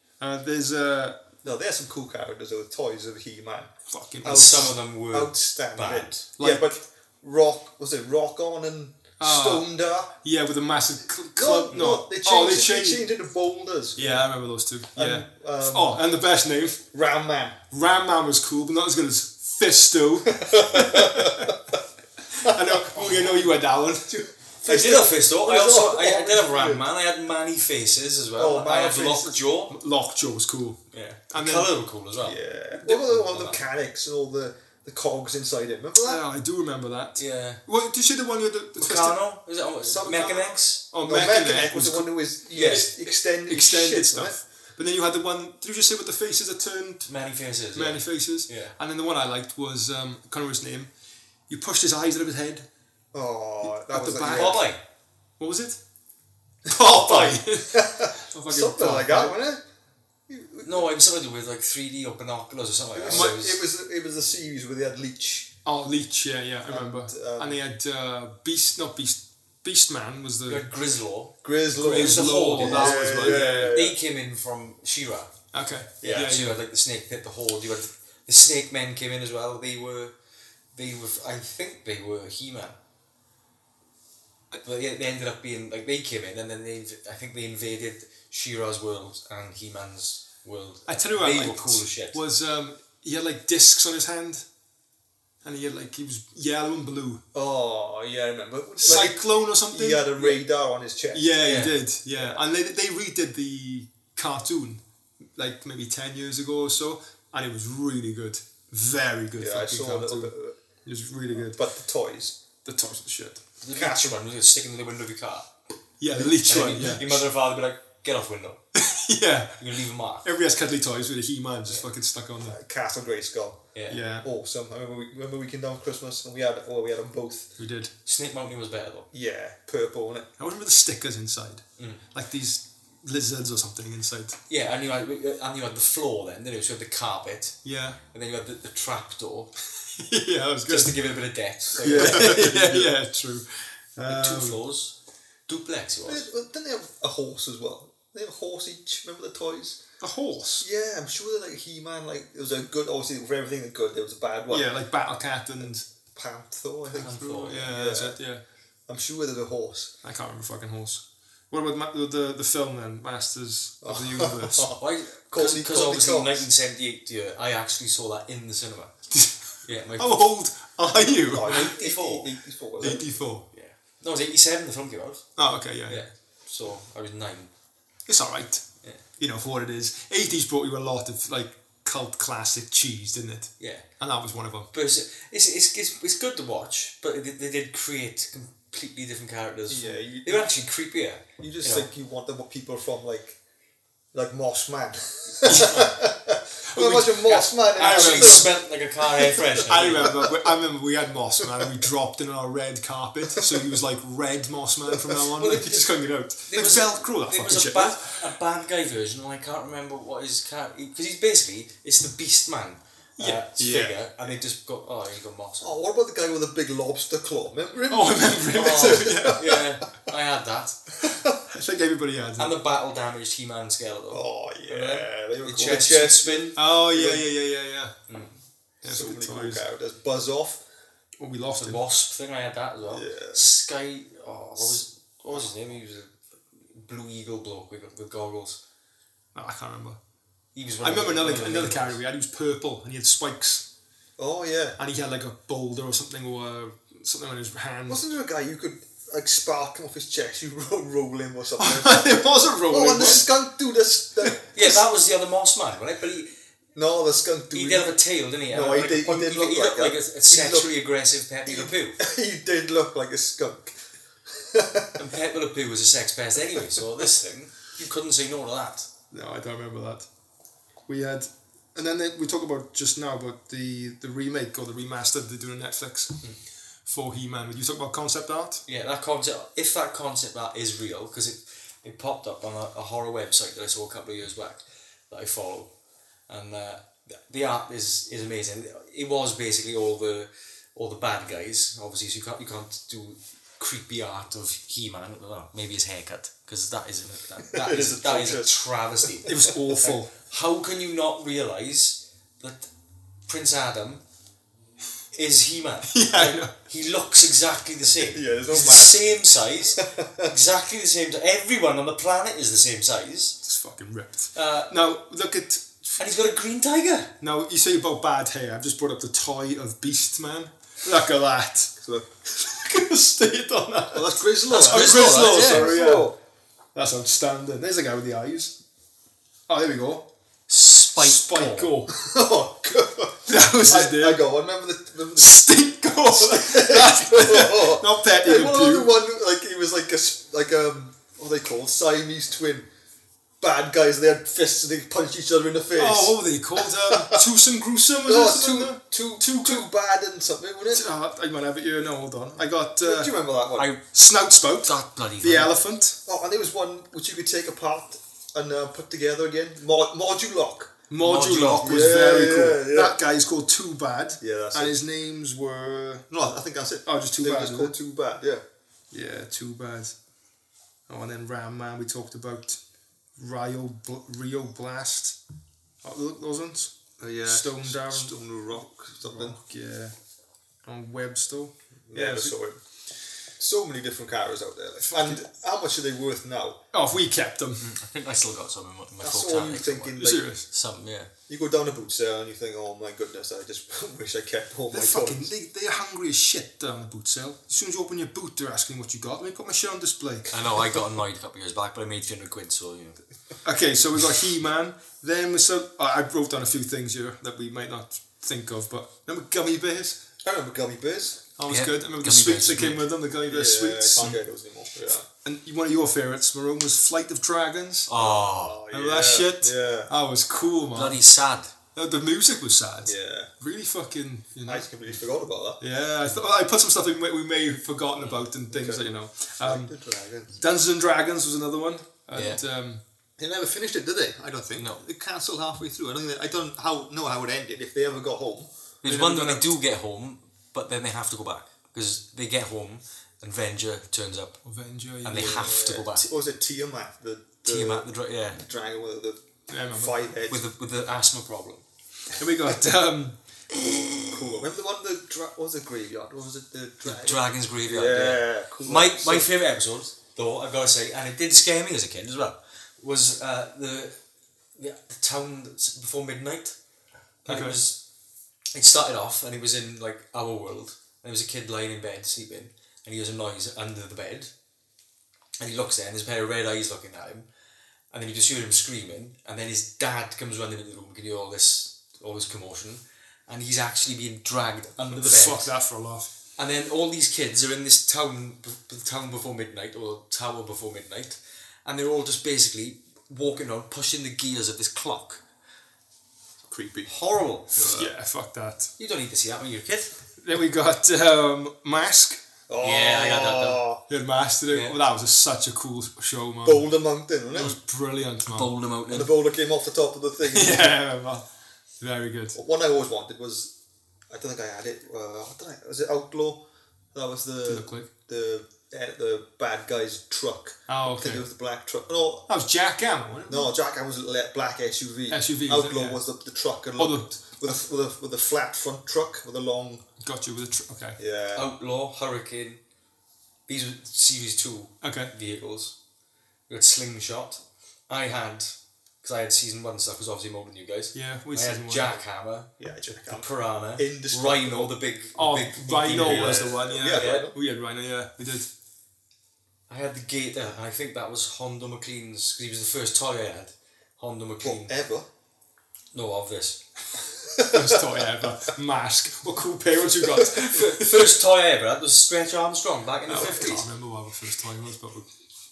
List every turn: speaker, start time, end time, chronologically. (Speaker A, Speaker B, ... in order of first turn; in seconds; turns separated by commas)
Speaker A: 0.2-1.2, Speaker B: 1.4-10.1, Speaker A: 3.9-4.8, Speaker C: 4.2-6.2, Speaker A: 6.4-6.8, Speaker A: 9.2-9.7, Speaker A: 10.2-13.1, Speaker B: 11.4-14.3, Speaker A: 14.0-16.8, Speaker B: 14.9-16.0, Speaker B: 16.9-17.6, Speaker A: 17.7-21.6, Speaker B: 20.4-21.5, Speaker A: 22.3-24.2, Speaker B: 22.4-22.8, Speaker B: 24.1-26.9, Speaker C: 24.6-29.7, Speaker B: 28.4-29.4, Speaker A: 29.7-30.8, Speaker C: 30.9-33.6, Speaker A: 31.3-31.7, Speaker B: 32.2-36.2, Speaker A: 36.0-39.2, Speaker C: 37.2-37.6, Speaker C: 38.8-40.8, Speaker B: 39.8-44.4, Speaker A: 40.9-42.9, Speaker C: 42.5-42.9, Speaker A: 43.5-47.1, Speaker C: 47.0-48.8, Speaker A: 47.7-50.9, Speaker A: 51.5-52.7, Speaker B: 53.1-54.6, Speaker A: 53.8-54.7, Speaker C: 54.2-54.8, Speaker A: 55.4-55.8, Speaker A: 56.7-59.4, Speaker B: 56.7-59.6, Speaker B: 60.3-60.9, Speaker C: 60.6-63.6, Speaker B: 62.9-65.5, Speaker A: 63.1-63.4, Speaker A: 65.7-70.7, Speaker B: 66.7-67.6, Speaker C: 70.5-75.3, Speaker B: 71.4-74.0, Speaker A: 71.8-73.8, Speaker A: 75.5-76.6, Speaker B: 76.0-76.3, Speaker C: 76.0-80.1, Speaker C: 80.8-82.8, Speaker C: 84.6-92.2, Speaker A: 90.9-94.5, Speaker A: 95.4-97.2, Speaker B: 97.3-101.3, Speaker A: 98.8-100.4, Speaker A: 101.1-104.8, Speaker C: 101.4-101.7, Speaker A: 105.4-110.3, Speaker B: 109.4-110.6, Speaker A: 110.8-111.6, Speaker B: 111.3-112.4, Speaker A: 112.7-113.4, Speaker C: 113.6-115.5, Speaker B: 113.7-114.2, Speaker A: 116.0-117.2, Speaker C: 116.5-118.6, Speaker A: 118.7-122.6, Speaker C: 119.6-120.3, Speaker B: 122.5-123.7, Speaker C: 123.8-124.0, Speaker A: 123.9-124.3, Speaker B: 124.2-127.5, Speaker A: 127.6-127.9, Speaker C: 128.1-129.1, Speaker B: 129.1-130.3, Speaker A: 130.4-134.4, Speaker C: 134.5-137.6, Speaker A: 137.6-138.0, Speaker C: 138.1-139.5, Speaker A: 140.0-141.0, Speaker C: 140.7-142.9, Speaker A: 141.8-144.6, Speaker B: 141.8-142.9, Speaker C: 144.1-144.9, Speaker C: 145.5-146.3, Speaker B: 146.1-149.8, Speaker A: 150.0-150.7, Speaker B: 150.6-154.7, Speaker A: 154.5-155.8, Speaker B: 155.6-158.2, Speaker C: 156.9-157.7, Speaker A: 157.0-158.4, Speaker B: 158.9-159.9, Speaker A: 160.0-164.7, Speaker B: 163.8-166.5, Speaker C: 164.8-168.9, Speaker C: 169.7-170.2, Speaker A: 170.0-171.7, Speaker B: 170.9-173.1, Speaker C: 171.3-172.3, Speaker A: 172.8-173.4, Speaker C: 173.5-175.3, Speaker A: 175.4-176.0, Speaker C: 175.9-177.5, Speaker A: 178.1-178.6, Speaker A: 179.2-184.7, Speaker C: 183.6-183.8, Speaker C: 184.7-191.9, Speaker B: 189.7-190.5, Speaker B: 191.4-193.4, Speaker B: 194.1-200.6, Speaker A: 195.4-196.1, Speaker A: 196.6-198.5, Speaker C: 197.8-200.2, Speaker A: 199.7-208.2, Speaker B: 201.4-201.8, Speaker B: 203.3-203.7, Speaker B: 204.9-205.6, Speaker C: 205.4-205.8, Speaker C: 206.5-215.7, Speaker A: 213.2-214.0, Speaker B: 215.6-219.7, Speaker A: 217.9-219.6, Speaker C: 218.5-220.8, Speaker B: 221.0-221.4, Speaker A: 221.3-222.6, Speaker C: 222.4-226.6, Speaker B: 224.1-227.3, Speaker A: 226.6-227.9, Speaker C: 228.1-228.4, Speaker A: 228.8-229.6, Speaker B: 228.8-230.6, Speaker A: 231.2-231.8, Speaker C: 231.6-236.2, Speaker B: 232.9-233.4, Speaker B: 234.6-235.5, Speaker C: 236.7-238.6, Speaker A: 239.3-240.0, Speaker C: 240.6-242.0, Speaker A: 240.8-243.7, Speaker B: 241.2-241.8, Speaker B: 244.2-244.8, Speaker A: 244.8-248.0, Speaker B: 247.9-254.8, Speaker A: 251.6-253.3, Speaker C: 254.6-256.3, Speaker B: 256.8-258.0, Speaker C: 257.5-262.0, Speaker B: 258.5-260.7, Speaker B: 261.5-263.8, Speaker B: 264.3-265.0, Speaker C: 265.0-268.9, Speaker A: 269.1-270.1, Speaker A: 270.9-276.2, Speaker A: 276.9-278.6, Speaker C: 278.7-285.7, Speaker C: 286.3-299.3, Speaker B: 297.5-299.9, Speaker A: 299.3-300.1, Speaker C: 300.3-302.7, Speaker C: 303.3-304.0, Speaker C: 305.1-313.4, Speaker A: 305.9-306.5, Speaker B: 308.0-310.3, Speaker A: 313.4-316.1, Speaker C: 314.4-314.7, Speaker C: 316.0-317.1, Speaker A: 317.2-321.8, Speaker B: 321.8-322.1, Speaker A: 322.3-326.1, Speaker B: 323.9-326.2, Speaker C: 324.5-325.8, Speaker A: 326.8-328.6, Speaker A: 329.5-330.1, Speaker C: 330.5-331.7, Speaker A: 330.9-331.9, Speaker B: 331.9-342.7, Speaker A: 333.3-334.2, Speaker A: 335.2-338.9, Speaker B: 343.4-347.2, Speaker A: 345.8-349.7, Speaker B: 348.0-350.8, Speaker A: 350.7-353.1, Speaker B: 352.8-353.7, Speaker C: 353.6-353.8, Speaker A: 353.9-356.0, Speaker C: 354.6-355.5, Speaker B: 356.1-360.7, Speaker A: 360.9-366.1, Speaker C: 361.0-361.9, Speaker B: 361.6-363.0, Speaker B: 364.2-364.8, Speaker B: 366.1-368.4, Speaker A: 366.9-367.8, Speaker A: 368.9-369.9, Speaker A: 370.9-372.6, Speaker A: 373.2-375.2, Speaker A: 375.8-378.2, Speaker B: 377.0-379.4, Speaker A: 379.1-379.9, Speaker A: 380.6-382.3, Speaker B: 381.9-382.6, Speaker B: 383.4-386.6, Speaker A: 384.8-385.2, Speaker A: 386.7-387.7, Speaker C: 387.6-391.1, Speaker B: 389.0-390.3, Speaker A: 390.0-390.4, Speaker B: 391.3-395.3, Speaker A: 394.7-400.3, Speaker C: 400.3-403.0, Speaker A: 403.4-410.0, Speaker B: 410.2-411.2, Speaker A: 411.4-414.2, Speaker C: 411.5-412.8, Speaker B: 413.3-415.1, Speaker A: 415.2-417.9, Speaker C: 417.9-418.6, Speaker B: 417.9-419.9, Speaker A: 418.7-421.0, Speaker C: 420.7-421.5, Speaker A: 421.8-424.7, Speaker B: 422.9-423.3, Speaker B: 424.4-425.6, Speaker A: 425.6-429.7, Speaker B: 428.5-428.8, Speaker B: 429.4-430.4, Speaker A: 430.4-432.8, Speaker C: 432.1-432.4, Speaker B: 433.2-438.5, Speaker C: 434.6-434.8, Speaker C: 438.8-444.4, Speaker A: 438.9-439.5, Speaker A: 444.4-445.5, Speaker C: 445.0-446.1, Speaker B: 445.1-450.4, Speaker C: 447.4-448.4, Speaker A: 449.5-449.9, Speaker C: 450.3-451.6, Speaker A: 452.1-453.2, Speaker B: 453.5-459.3, Speaker C: 456.9-464.0, Speaker C: 464.6-466.6, Speaker C: 467.2-467.8, Speaker A: 467.3-467.6, Speaker C: 468.5-474.3, Speaker C: 475.4-477.3, Speaker C: 477.9-485.5, Speaker A: 484.9-486.1, Speaker C: 486.4-495.2, Speaker B: 496.5-496.9, Speaker C: 496.9-497.6, Speaker B: 497.5-497.9, Speaker A: 497.7-498.7, Speaker C: 498.8-499.9, Speaker A: 500.2-502.2, Speaker B: 502.5-503.8, Speaker C: 502.6-503.6, Speaker A: 503.9-506.7, Speaker B: 506.4-507.6, Speaker A: 507.3-508.5, Speaker C: 508.3-509.1, Speaker B: 508.9-510.8, Speaker A: 510.3-511.2, Speaker A: 511.8-512.4, Speaker B: 512.4-513.5, Speaker B: 514.1-516.4, Speaker B: 516.9-522.3, Speaker A: 517.5-517.9, Speaker A: 520.7-521.2, Speaker A: 522.3-523.5, Speaker B: 523.3-529.8, Speaker A: 525.1-526.0, Speaker A: 526.8-527.5, Speaker A: 530.0-531.0, Speaker B: 531.0-531.5, Speaker C: 531.4-532.6, Speaker C: 533.5-535.8, Speaker A: 534.8-535.1, Speaker C: 536.5-542.5, Speaker A: 541.0-542.0, Speaker B: 542.6-544.8, Speaker C: 543.0-547.3, Speaker A: 545.1-548.5, Speaker B: 545.9-547.4, Speaker C: 549.7-554.7, Speaker B: 554.4-555.1, Speaker C: 555.9-556.6, Speaker B: 557.2-558.3, Speaker A: 557.4-561.1, Speaker B: 560.0-560.3, Speaker C: 560.3-563.7, Speaker A: 563.1-565.1